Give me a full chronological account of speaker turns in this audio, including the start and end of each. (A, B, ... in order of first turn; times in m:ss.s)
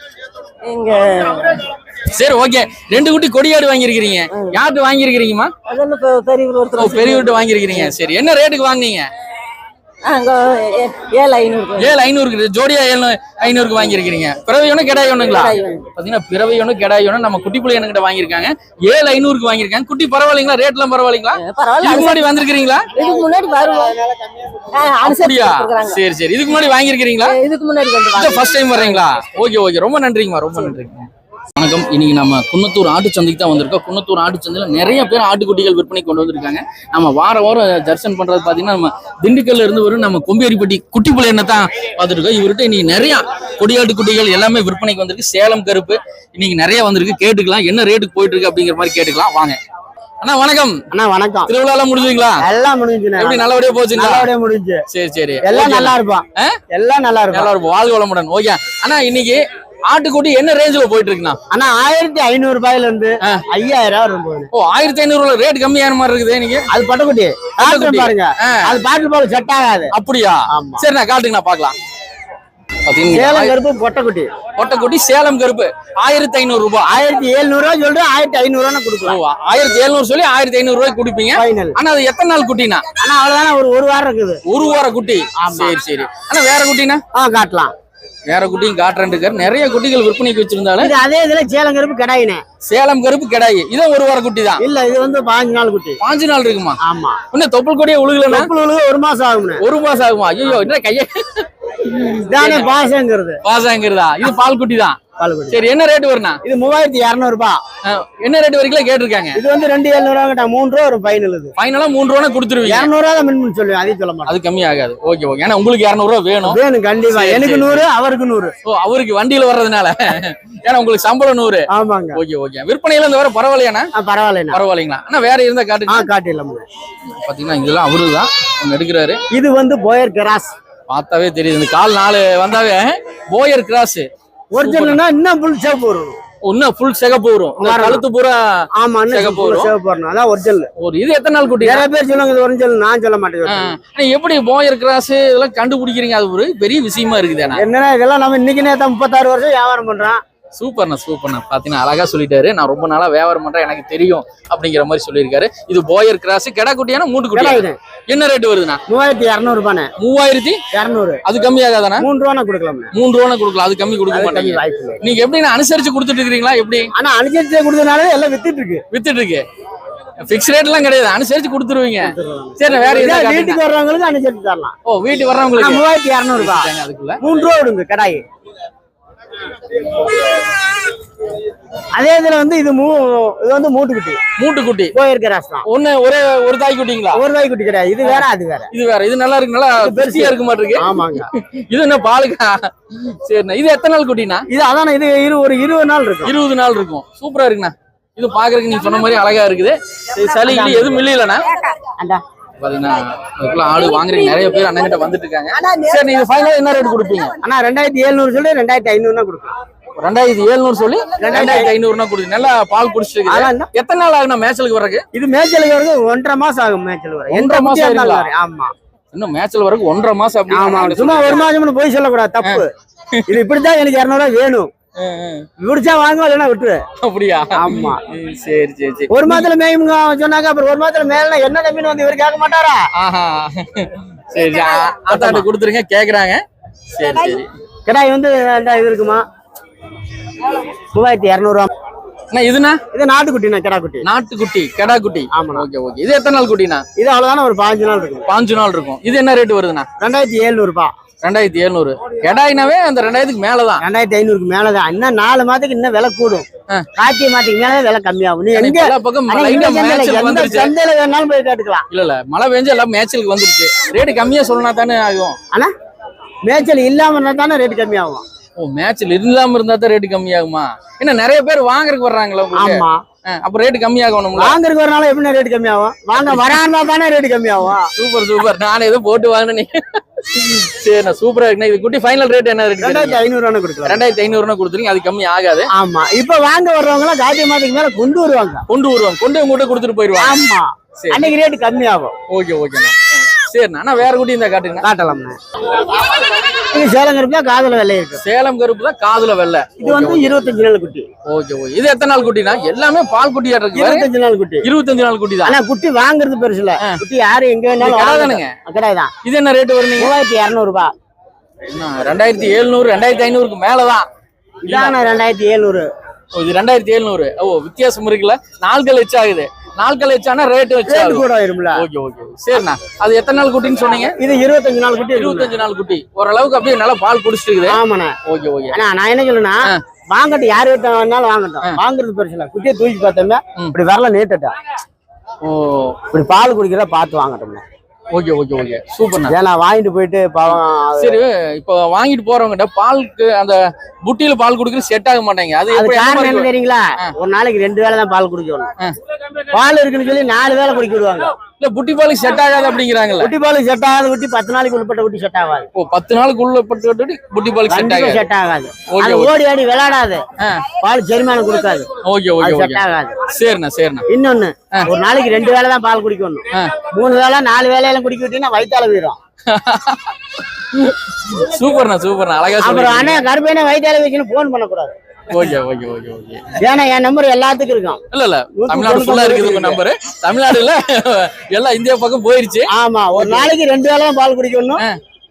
0:00.6-0:01.7 A
0:02.1-0:05.5 B
0:04.3-0:04.6 A
0:05.6-0:07.9 A
0:06.8-0:09.0 B
0:10.0-0:12.0 A
0:11.8-0:22.9 B
0:15.2-0:15.9 A
0:21.4-0:22.4 A
0:22.9-0:24.0 A
0:23.9-0:24.7 C
0:24.7-0:26.0 A
0:25.0-0:27.4 B
0:27.2-0:29.0 A
0:28.1-0:49.6 B
0:50.2-0:50.8 B
0:50.9-0:51.5 C
0:51.5-0:52.4 B
0:52.4-0:54.8 C
0:53.2-0:54.3 B
0:54.9-0:56.6 B
0:55.4-0:57.5 C
0:57.3-1:01.4 B
1:01.5-1:04.5 C
1:04.5-1:06.7 B
1:06.7-1:09.9 C
1:07.6-1:08.8 B
1:09.9-1:11.8 B
1:10.5-1:10.8 C
1:12.8-1:13.5 B
1:13.1-1:14.3 C
1:14.6-1:17.0 B
1:16.8-1:19.2 C
1:19.0-1:22.8 B
1:21.3-1:21.8 C
1:23.0-1:24.4 C
1:24.4-1:27.0 B
1:25.4-1:25.8 C
1:27.1-1:27.7 C
1:28.3-1:30.9 B
1:30.8-1:32.4 C
1:32.6-1:34.6 B
1:34.6-1:36.0 C
1:36.0-1:36.8 B
1:36.8-1:37.2 C
1:37.3-1:38.5 B
1:38.3-1:39.6 C
1:39.6-1:42.7 B
1:42.3-1:43.4 C
1:43.4-1:46.4 B
1:45.2-1:45.6 C
1:46.4-1:47.6 C
1:47.8-1:49.4 B
1:49.4-1:51.5 C
1:51.6-1:52.9 B
1:52.6-1:54.4 C
1:54.2-1:57.8 B
1:56.4-1:58.5 C
1:58.6-2:03.9 B
2:01.7-2:02.2 C
2:04.0-2:04.6 C
2:04.5-2:06.1 B
2:05.9-2:06.6 C
2:07.1-2:09.2 B
2:09.3-2:10.5 C
2:10.9-2:14.1 B
2:14.5-2:16.2 C
2:14.6-2:15.0 B
2:16.4-2:19.7 B
2:17.6-2:18.0 C
2:18.8-2:20.7 C
2:20.8-2:21.9 B
2:21.6-2:23.7 C
2:23.4-2:27.6 B
2:27.5-2:30.2 C
2:30.6-2:38.8 B
2:37.3-2:37.8 C
2:38.9-2:39.9 C
2:40.0-2:40.6 B
2:40.7-2:41.2 C
2:41.2-2:42.1 B
2:42.0-2:42.9 C
2:42.9-2:46.9 B
2:44.1-2:45.0 C
2:46.9-2:48.8 C
2:48.9-2:49.4 B
2:50.2-2:53.6 B
2:52.0-2:54.7 C
2:54.9-2:55.8 B
2:55.6-2:58.2 C
2:56.4-2:57.2 B
3:02.0-3:04.2 C
3:04.4-3:04.9 B
3:04.9-3:05.6 C
3:05.7-3:07.2 B
3:07.1-3:08.7 C
3:08.0-3:14.4 B
3:09.8-3:11.3 C
3:14.5-3:16.4 C
3:16.2-3:21.5 B
3:20.4-3:21.0 C
3:22.6-3:27.4 B
3:27.4-3:29.5 C
3:30.0-3:35.0 B
3:31.2-3:31.7 C
3:33.2-3:33.7 C
3:35.1-3:38.7 C
3:37.3-3:38.3 B
3:39.1-3:41.5 B
3:40.5-3:42.7 C
3:42.4-3:43.4 B
3:43.3-3:44.7 C
3:45.0-3:45.4 B
3:45.6-3:46.8 C
3:47.0-3:49.5 B
3:47.5-3:48.0 C
3:49.1-3:52.8 C
3:53.0-3:56.4 B
3:55.1-3:55.5 C
3:56.9-3:57.5 B
3:57.9-3:59.2 C
4:00.9-4:01.7 C
4:02.3-4:02.8 B
4:02.9-4:04.0 C
4:04.0-4:06.8 B
4:05.3-4:05.7 C
4:07.0-4:08.3 C
4:08.3-4:09.9 B
4:10.0-4:10.9 C
4:11.2-4:13.8 B
4:13.8-4:21.9 C
4:18.5-4:20.7 B
4:21.9-4:25.4 B
4:26.5-4:28.2 C
4:28.6-4:34.6 B
4:32.5-4:33.0 C
4:34.4-4:37.9 C
4:36.2-4:36.6 B
4:37.9-4:43.2 B
4:42.8-4:44.0 C
4:43.8-4:45.7 B
4:45.7-4:48.6 C
4:48.7-4:50.4 B
4:50.2-4:52.1 C
4:51.0-4:51.3 B
4:52.3-4:54.9 B
4:54.8-4:55.4 C
4:56.1-4:58.2 C
4:58.2-5:00.5 B
4:59.8-5:01.1 C
5:01.3-5:04.1 B
5:03.7-5:04.7 C
5:04.6-5:05.6 B
5:05.4-5:09.1 C
5:07.8-5:08.5 B
5:09.2-5:10.1 B
5:10.0-5:10.9 C
5:11.7-5:14.1 B
5:14.6-5:15.9 C
5:14.6-5:14.9 B
5:16.4-5:24.1 B
5:20.8-5:21.8 C
5:24.1-5:25.6 C
5:25.1-5:28.8 B
5:27.7-5:28.1 C
5:28.7-5:29.6 C
5:30.1-5:34.5 C
5:35.4-5:36.0 B
5:36.1-5:37.6 C
5:38.1-5:39.3 B
5:39.3-5:41.2 C
5:40.5-5:47.1 B
5:45.7-5:48.7 C
5:49.5-5:51.3 C
5:51.6-5:53.3 B
5:53.2-5:55.7 C
5:55.7-5:58.2 B
5:57.7-6:00.2 C
5:58.9-5:59.3 B
6:00.4-6:00.6 B
6:00.8-6:01.9 C
6:02.0-6:04.0 B
6:02.4-6:03.2 C
6:04.1-6:09.2 C
6:09.5-6:10.1 B
6:10.7-6:13.2 B
6:12.6-6:14.9 C
6:15.3-6:16.6 B
6:16.6-6:18.0 C
6:18.1-6:23.5 B
6:18.5-6:19.8 C
6:22.7-6:24.8 C